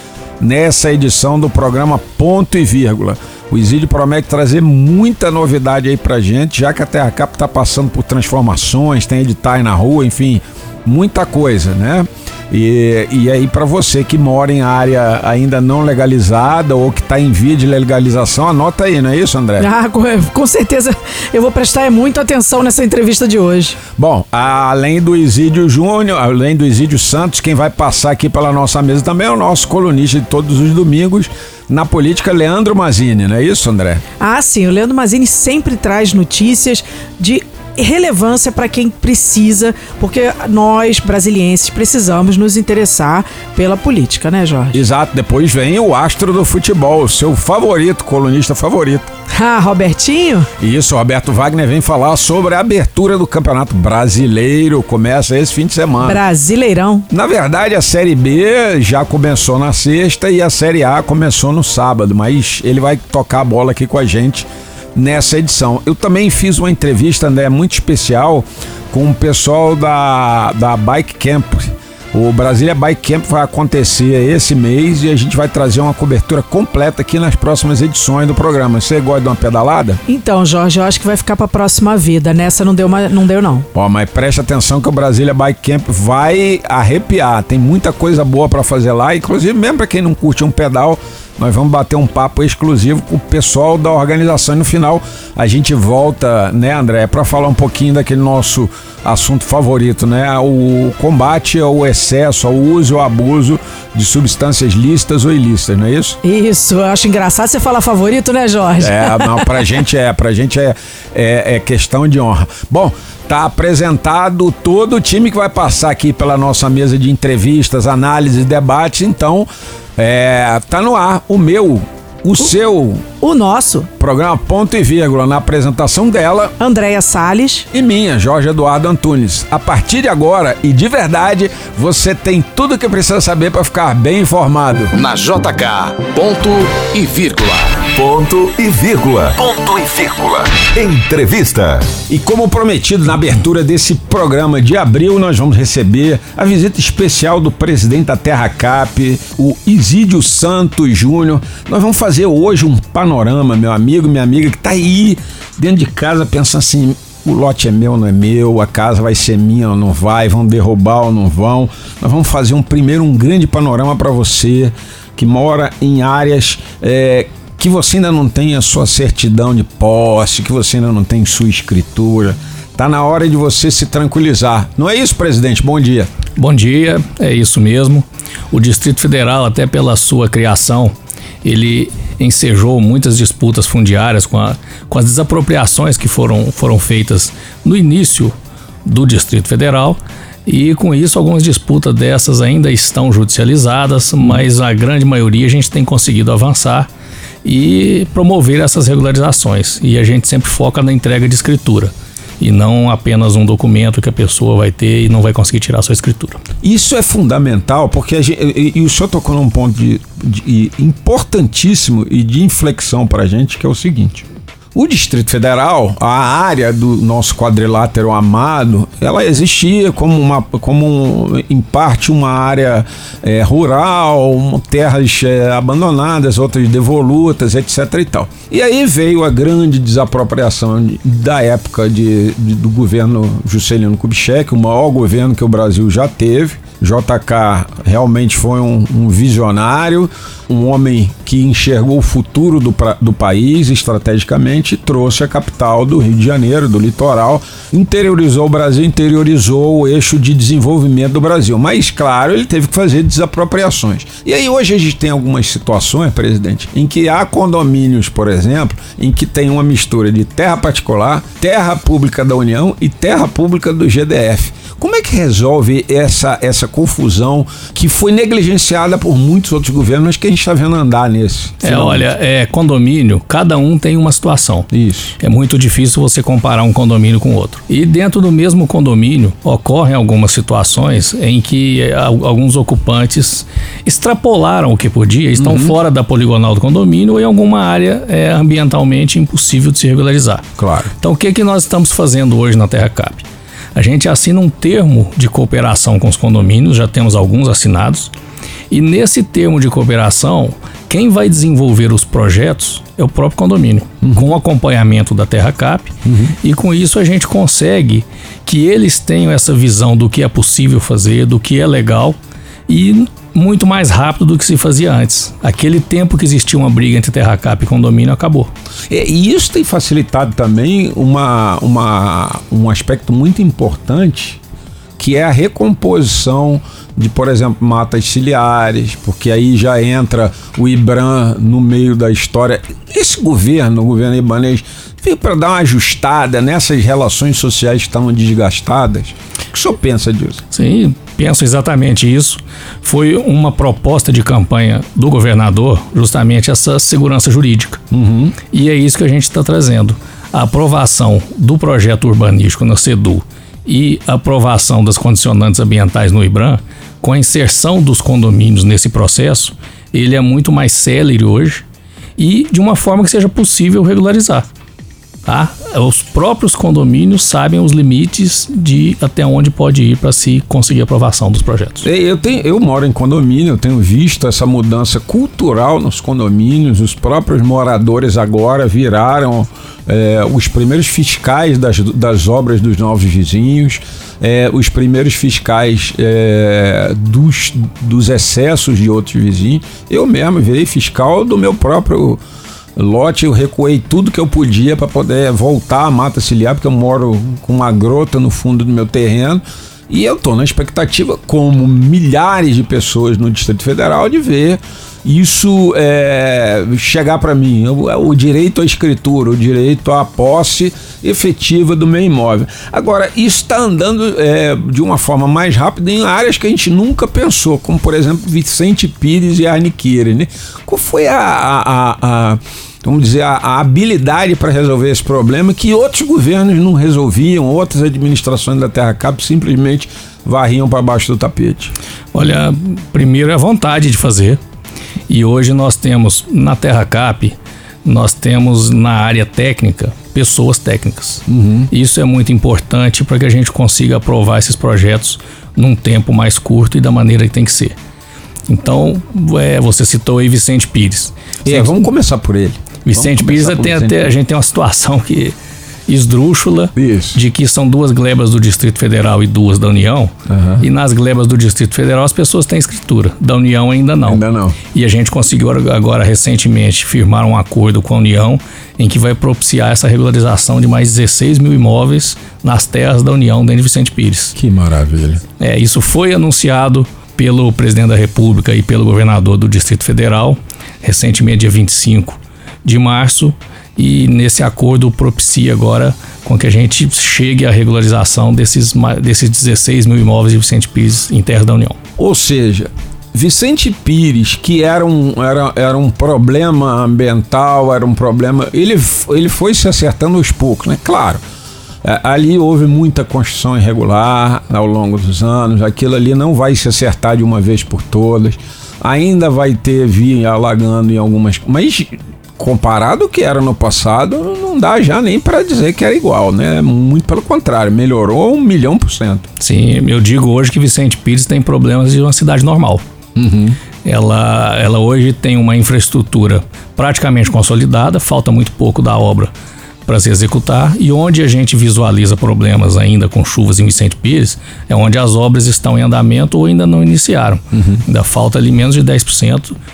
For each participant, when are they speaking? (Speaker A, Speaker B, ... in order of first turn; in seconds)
Speaker A: 0.4-19.7, 24.0-34.0, 44.7-49.1, 50.6-56.2, 57.1-80.0, 83.7-106.2, 108.8-123.0, 124.0-126.5, 127.7-134.9, 142.1-176.1, 206.6-272.1, 274.7-275.1, 285.4-285.8, 290.6-290.9, 304.0-304.3, 306.1-306.4, 318.9-324.4, 325.0-340.4, 347.9-348.4, 371.8-392.2, 392.8-431.7, 441.3-441.7, 451.4-454.1, 456.8-457.2, 460.3-460.6, 464.1-464.6, 474.4-475.2, 492.0-501.2, 501.8-519.3, 523.2-523.6, 537.5-537.8
Speaker B: 19.6-23.8, 34.2-44.8, 49.3-50.5, 56.0-57.1, 80.1-83.7, 106.2-109.6, 123.2-123.9, 126.6-127.7
Speaker C: 134.9-137.9
Speaker D: 137.9-142.0
Speaker E: 176.4-196.9, 197.4-206.4, 271.6-274.7, 275.2-290.5, 291.0-298.1, 298.7-312.2, 312.7-318.5, 340.5-347.8, 348.5-361.6, 362.2-364.5, 365.3-371.9, 432.1-434.4, 435.1-447.8, 448.5-451.9, 452.9-455.4, 455.9-464.2, 464.7-474.4, 475.4-491.8, 519.4-522.8, 523.9-529.3, 529.9-539.5